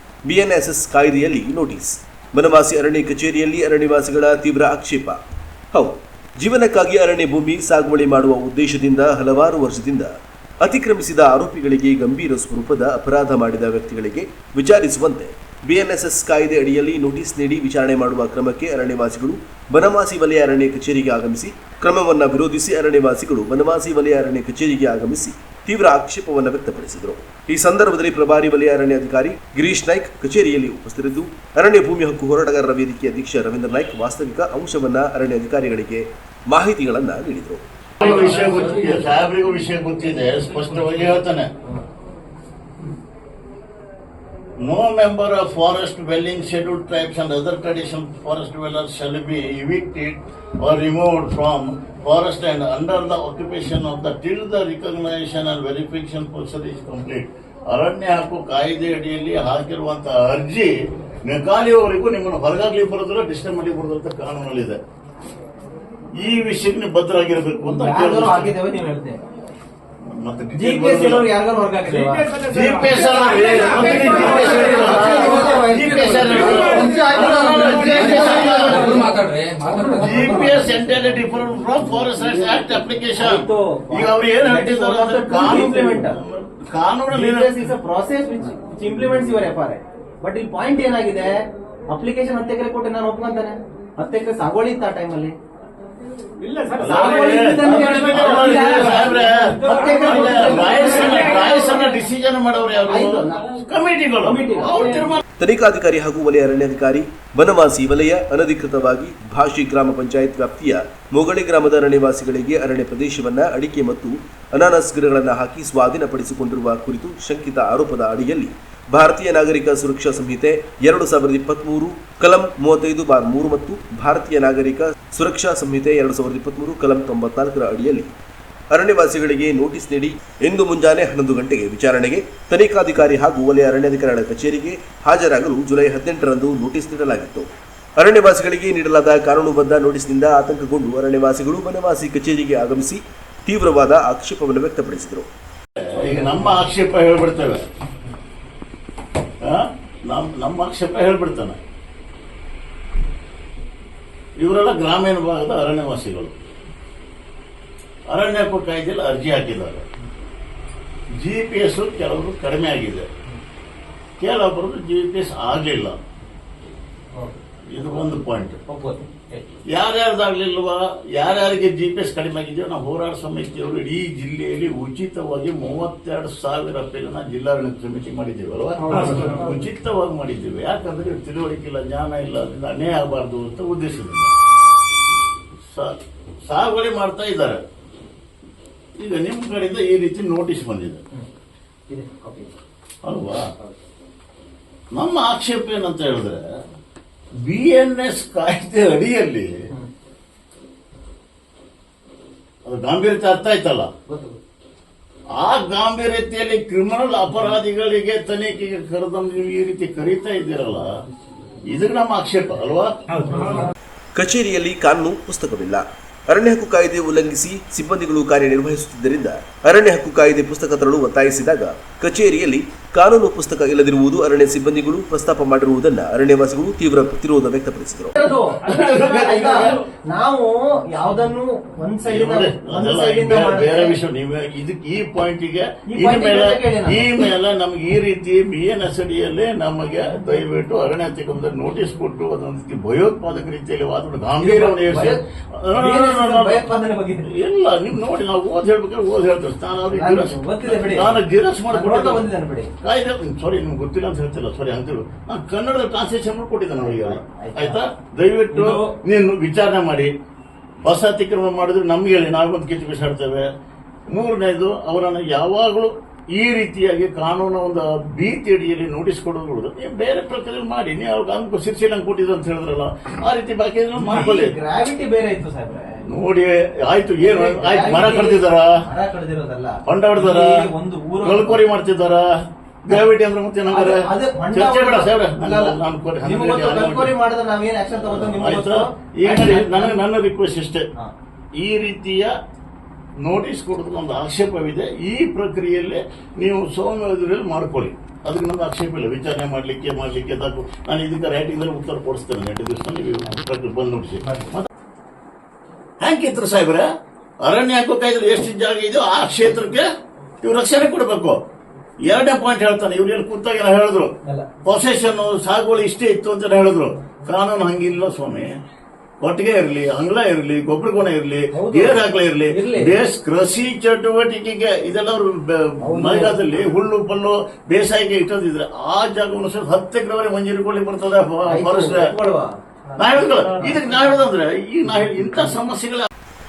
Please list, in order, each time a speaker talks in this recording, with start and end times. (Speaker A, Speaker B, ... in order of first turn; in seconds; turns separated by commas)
Speaker A: 0.2-5.2, Speaker A: 5.7-37.6, Speaker B: 38.0-41.5, Speaker B: 44.6-60.7, Speaker B: 61.2-64.8, Speaker B: 66.2-68.6, Speaker C: 67.7-69.2, Speaker B: 70.1-71.3, Speaker C: 70.5-72.4, Speaker B: 72.4-79.1, Speaker C: 74.5-79.9, Speaker B: 79.8-87.7, Speaker C: 83.2-86.2, Speaker C: 87.1-95.3, Speaker C: 96.5-101.5, Speaker B: 96.8-105.2, Speaker C: 102.9-103.5, Speaker C: 104.2-105.1, Speaker A: 105.4-128.1, Speaker A: 128.7-145.3, Speaker B: 145.8-147.6, Speaker B: 149.4-151.6, Speaker B: 154.4-156.3, Speaker B: 158.1-159.8, Speaker B: 161.2-163.1, Speaker B: 164.2-166.0, Speaker B: 167.7-168.6, Speaker C: 168.7-169.5, Speaker B: 169.7-184.3, Speaker C: 178.9-179.3, Speaker B: 185.7-187.6, Speaker B: 189.0-191.0, Speaker C: 191.9-192.5, Speaker B: 193.0-193.5, Speaker B: 194.9-196.5, Speaker B: 197.4-199.6, Speaker B: 202.6-203.9, Speaker C: 204.1-204.4, Speaker B: 205.3-210.9, Speaker B: 211.7-213.6, Speaker A: 214.1-228.1, Speaker C: 228.1-234.0, Speaker B: 228.6-229.8, Speaker B: 232.0-246.6, Speaker C: 235.9-237.3, Speaker C: 244.4-245.2, Speaker C: 245.7-247.3, Speaker B: 247.2-252.2, Speaker C: 249.9-252.7, Speaker B: 252.8-260.1, Speaker C: 256.8-257.8, Speaker C: 258.5-258.9, Speaker B: 260.8-263.5, Speaker B: 264.1-274.5, Speaker C: 274.0-276.0, Speaker B: 276.1-278.8, Speaker C: 277.2-281.6, Speaker B: 279.8-280.7, Speaker B: 281.2-282.3, Speaker B: 282.8-287.1, Speaker C: 283.7-290.0, Speaker B: 287.9-290.8, Speaker B: 291.5-292.3, Speaker B: 293.2-304.7, Speaker B: 306.0-306.9, Speaker B: 307.4-309.9, Speaker B: 310.4-311.4, Speaker B: 312.0-314.1, Speaker B: 314.6-318.5, Speaker B: 319.2-332.1, Speaker C: 321.5-322.9, Speaker C: 325.8-326.4, Speaker C: 331.5-334.1, Speaker B: 333.0-336.1, Speaker C: 335.1-335.5